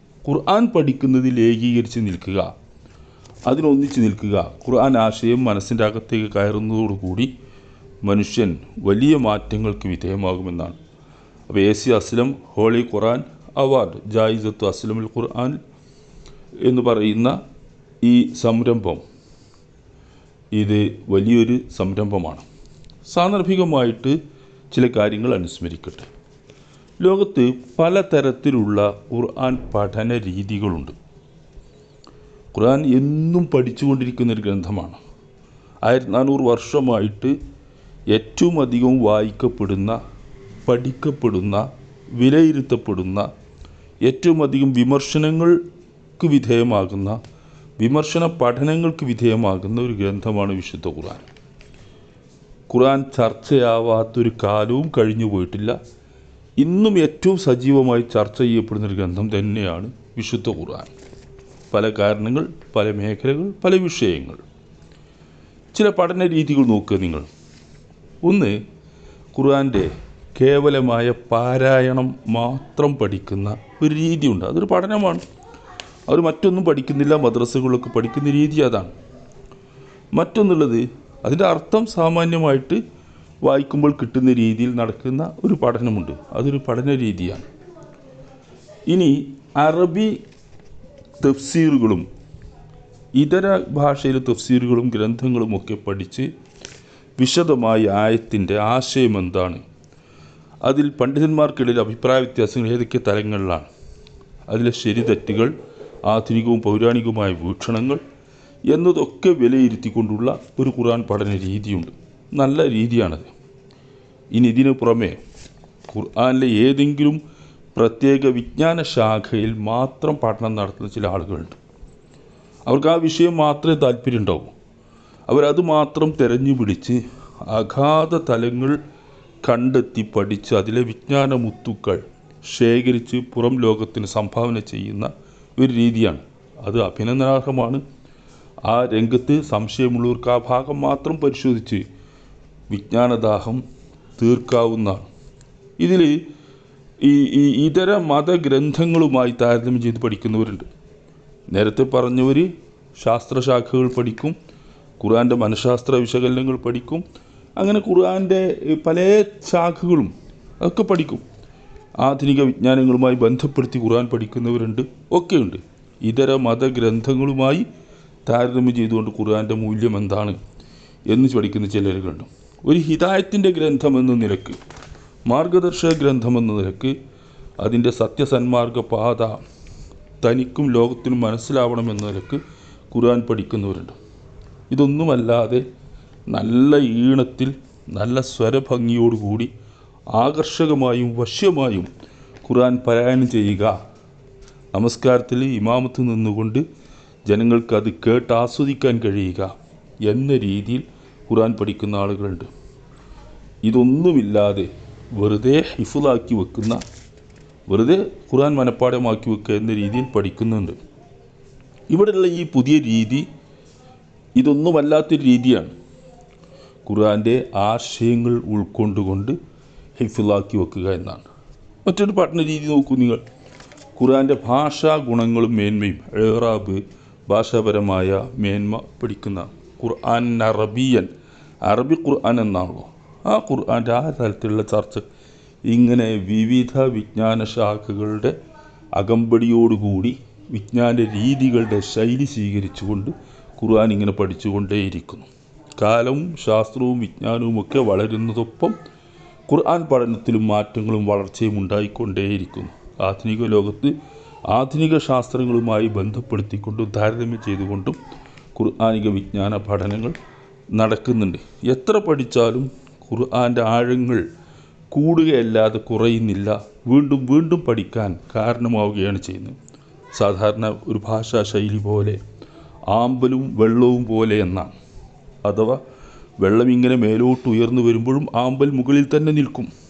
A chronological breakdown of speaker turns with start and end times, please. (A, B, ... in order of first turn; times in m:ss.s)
0:00.2-0:02.5 A
0:03.5-0:07.3 A
0:08.0-0:10.8 A
0:11.5-0:15.6 A
0:16.6-0:17.4 A
0:18.0-0:19.0 A
0:20.5-0:22.4 A
0:23.1-0:24.2 A
0:24.7-0:26.1 A
0:27.0-0:30.9 A
0:32.5-0:35.0 A
0:35.8-0:37.3 A
0:38.1-0:40.0 A
0:40.6-0:43.3 A
0:44.0-0:45.6 A
0:46.2-0:47.2 A
0:47.8-0:51.2 A
0:52.7-0:55.8 A
0:56.6-1:00.9 A
1:01.7-1:04.4 A
1:05.7-1:07.2 A
1:08.2-1:08.6 A
1:09.3-1:15.2 A
1:16.1-1:18.9 A
1:20.1-1:22.8 A
1:23.4-1:27.4 A
1:28.9-1:30.2 A
1:31.2-1:32.0 A
1:33.1-1:36.3 A
1:37.2-1:39.6 A
1:40.6-1:43.7 A
1:44.5-1:45.5 A
1:46.0-1:48.0 A
1:48.7-1:53.3 A
1:54.3-1:55.2 A
1:55.9-1:57.2 A
1:57.7-2:01.6 A
2:02.7-2:04.5 A
2:05.3-2:08.8 A
2:09.4-2:17.8 A
2:18.6-2:21.8 A
2:22.7-2:23.6 A
2:24.2-2:25.0 A
2:25.8-2:26.2 A
2:27.0-2:30.7 A
2:31.5-2:34.4 A
2:35.0-2:37.0 A
2:37.6-2:41.2 A
2:42.0-2:47.6 A
2:48.2-2:50.4 A
2:51.1-2:54.6 A
2:55.3-2:56.9 A
2:57.6-2:59.4 A
3:00.2-3:02.4 A
3:02.9-3:04.0 A
3:04.7-3:05.6 A
3:06.3-3:09.5 A
3:10.1-3:11.9 A
3:12.4-3:13.7 A
3:14.7-3:16.6 A
3:17.3-3:19.5 A
3:20.0-3:22.5 A
3:23.6-3:26.8 A
3:27.7-3:30.8 A
3:31.9-3:33.2 A
3:34.4-3:35.7 A
3:36.8-3:39.4 A
3:40.0-3:41.2 A
3:41.8-3:43.2 A
3:44.0-3:51.1 A
3:51.6-3:55.0 A
3:55.7-3:58.4 A
3:59.0-4:05.3 A
4:05.8-4:08.8 A
4:09.5-4:13.9 A
4:14.5-4:18.0 A
4:18.5-4:20.2 A
4:20.7-4:24.2 A
4:24.9-4:29.6 A
4:30.1-4:32.2 A
4:32.9-4:34.7 A
4:35.4-4:35.8 A
4:36.4-4:39.7 A